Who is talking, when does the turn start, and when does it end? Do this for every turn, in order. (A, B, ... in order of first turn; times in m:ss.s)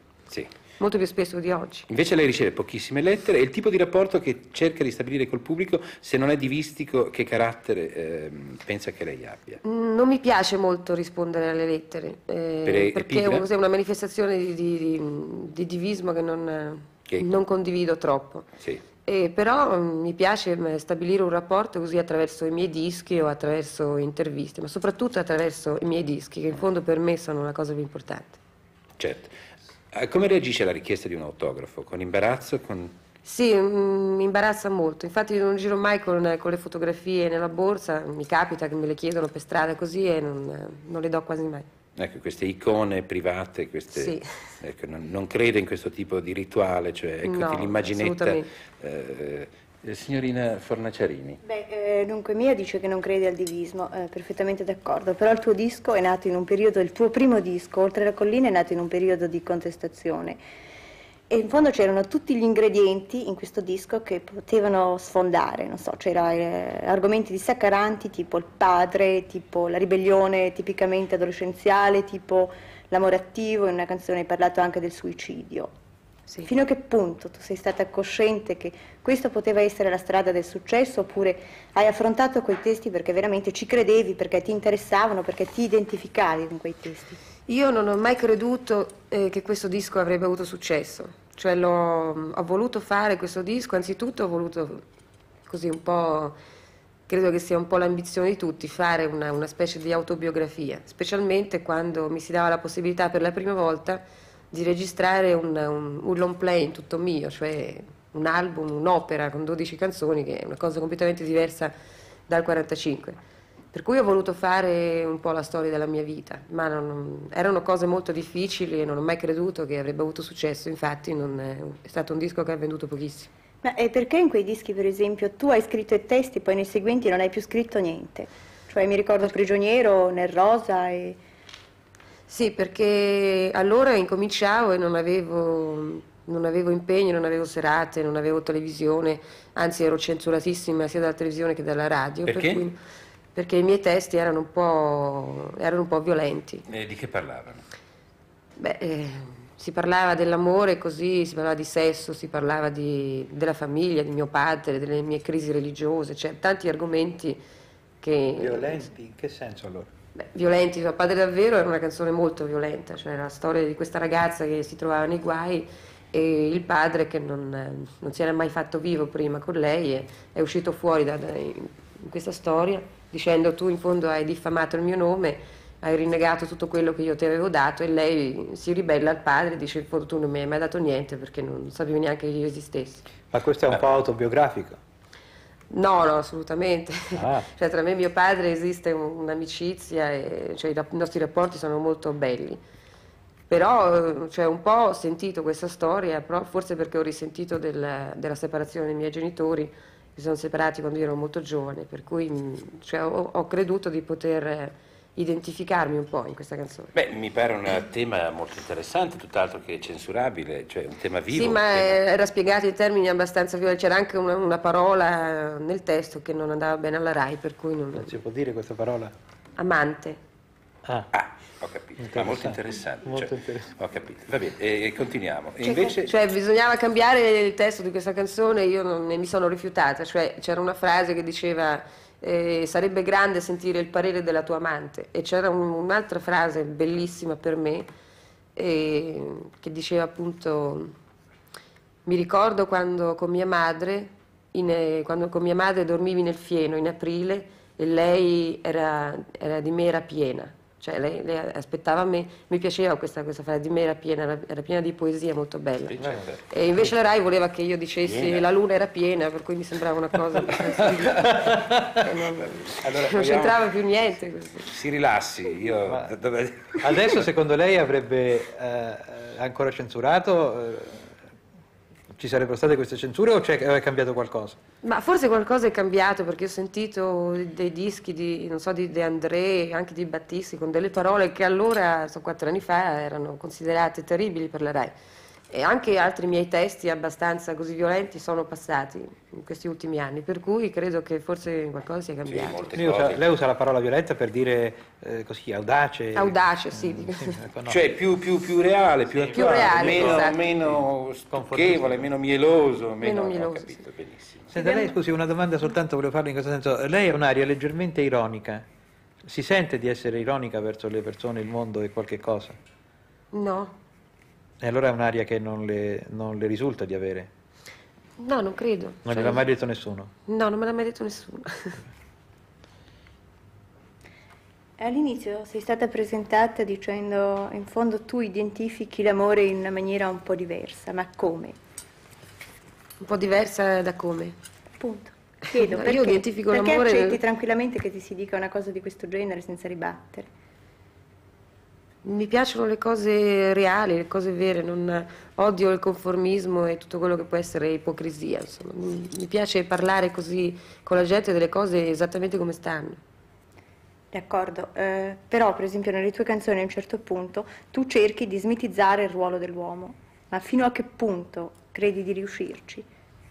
0:00.8-0:01.9 A
0:01.9-0:09.6 B
0:09.6-0:18.5 A
0:12.6-0:13.4 B
0:19.0-0:28.4 A
0:29.0-0:29.4 B
0:29.9-0:32.9 B
0:33.2-0:41.7 A
0:42.0-0:51.4 B
0:43.9-0:44.2 A
0:47.2-0:48.5 A
0:51.4-1:00.4 C
1:01.3-1:15.7 C
1:16.4-1:27.2 C
1:27.5-1:34.8 A
1:35.5-1:36.4 A
1:37.1-1:51.7 A
1:52.3-1:53.2 A
1:53.7-2:03.3 A
2:03.6-2:11.2 C
2:12.3-2:22.8 A
2:22.2-2:22.6 B
2:23.3-2:26.6 A
2:26.7-2:27.6 B
2:28.6-2:37.4 A
2:38.0-2:38.9 A
2:38.4-2:39.9 D
2:40.1-3:03.0 A
3:03.3-3:04.8 D
3:05.7-3:12.6 A
3:07.1-3:07.5 D
3:13.5-3:26.9 A
3:26.9-3:32.0 B
3:31.3-3:38.2 A
3:38.0-3:39.1 D
3:39.6-3:40.2 A
3:40.8-3:41.1 D
3:41.1-3:46.1 B
3:42.0-3:43.7 D
3:45.6-3:46.0 C
3:46.0-3:57.9 A
3:58.6-4:00.9 A
4:02.0-4:24.7 A
4:15.9-4:16.4 B
4:18.0-4:18.4 B
4:21.4-4:22.0 D
4:22.4-4:23.6 B
4:24.7-4:27.2 B
4:25.9-4:26.1 D
4:26.8-4:31.2 D
4:32.2-4:34.6 D
4:34.8-4:44.9 A
4:45.5-4:52.6 A
4:52.3-4:53.2 B
4:52.7-4:57.8 D
4:56.1-4:57.4 A
4:57.6-5:04.5 B
4:59.1-5:00.8 D
4:59.3-5:00.4 A
5:01.3-5:02.1 D
5:03.0-5:03.8 A
5:04.5-5:08.6 D
5:04.6-5:04.9 C
5:09.2-5:12.6 D
5:13.3-5:13.7 A
5:14.6-5:17.3 D
5:18.2-5:19.4 A
5:19.0-5:20.1 D
5:20.2-5:21.8 A
5:24.8-5:31.6 C
5:33.0-5:34.3 A
5:34.8-5:40.3 C
5:35.5-5:37.2 A
5:42.0-5:53.0 A
5:54.1-6:02.8 C